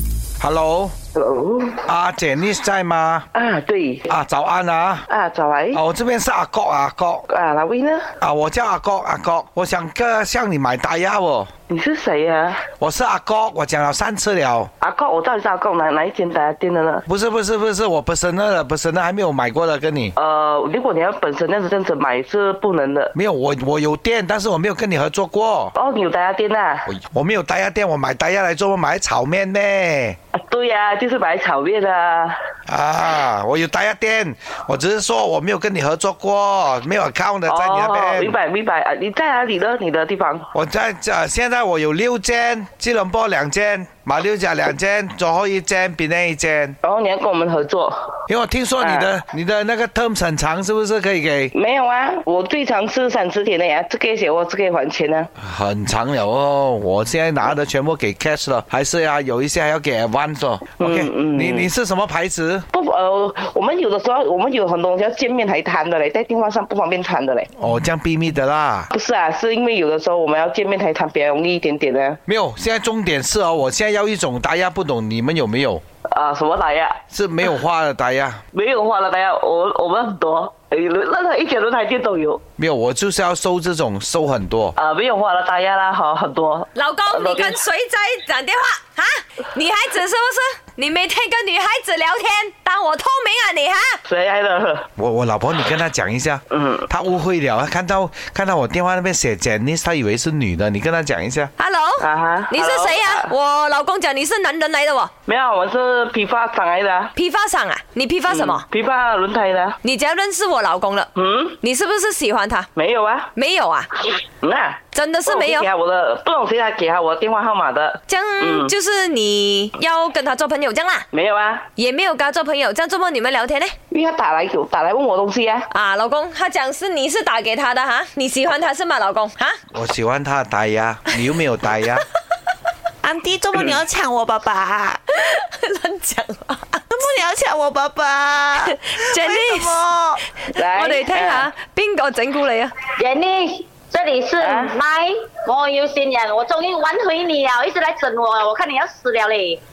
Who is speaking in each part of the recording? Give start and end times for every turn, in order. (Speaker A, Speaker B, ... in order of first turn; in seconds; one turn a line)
Speaker A: 0.4-0.9
Speaker B: 1.1-1.8
Speaker A: 1.9-3.3
Speaker B: 3.3-4.1
Speaker A: 4.1-5.1
Speaker B: 5.1-5.8
Speaker A: 5.7-7.2
Speaker B: 7.3-8.1
Speaker A: 8.2-11.5
Speaker B: 11.7-12.6
Speaker A: 12.8-14.7
Speaker B: 14.8-17.0
Speaker A: 17.1-20.1
Speaker B: 20.2-23.1
Speaker A: 23.1-25.7
Speaker B: 25.8-26.9
Speaker A: 26.9-30.2
Speaker B: 30.4-32.4
Speaker A: 32.7-38.3
Speaker B: 37.5-40.5
Speaker A: 40.5-46.8
Speaker B: 46.8-48.1
Speaker A: 48.3-51.5
Speaker B: 48.8-49.1
Speaker B: 51.5-55.3
Speaker A: 55.4-62.6
Speaker B: 60.8-61.7
Speaker B: 62.7-67.5
Speaker A: 67.6-68.9
Speaker B: 68.9-72.2
Speaker A: 72.3-75.8
Speaker B: 76.1-77.0
Speaker A: 77.1-78.4
Speaker B: 78.5-82.4
Speaker A: 82.6-84.8
Speaker B: 84.8-87.6
Speaker C: 86.8-94.0
Speaker B: 94.1-94.9
Speaker A: 95.0-101.5
Speaker B: 96.5-96.9
Speaker C: 101.6-105.1
Speaker B: 102.0-103.3
Speaker B: 105.3-107.1
Speaker C: 107.2-108.6
Speaker B: 108.3-109.8
Speaker C: 109.8-111.1
Speaker B: 111.2-111.6
Speaker C: 111.6-112.7
Speaker B: 112.8-113.3
Speaker C: 113.4-113.9
Speaker B: 114.4-118.7
Speaker C: 114.9-115.7
Speaker C: 118.1-121.1
Speaker B: 121.1-121.7
Speaker C: 121.8-123.8
Speaker B: 123.9-125.7
Speaker C: 125.7-129.6
Speaker A: 129.7-132.1
Speaker D: 133.0-135.0
Speaker C: 135.1-137.0
Speaker D: 136.9-140.2
Speaker C: 138.6-139.8
Speaker C: 140.5-142.7
Speaker B: 140.5-141.5
Speaker E: 143.0-149.6
Speaker B: 144.4-144.8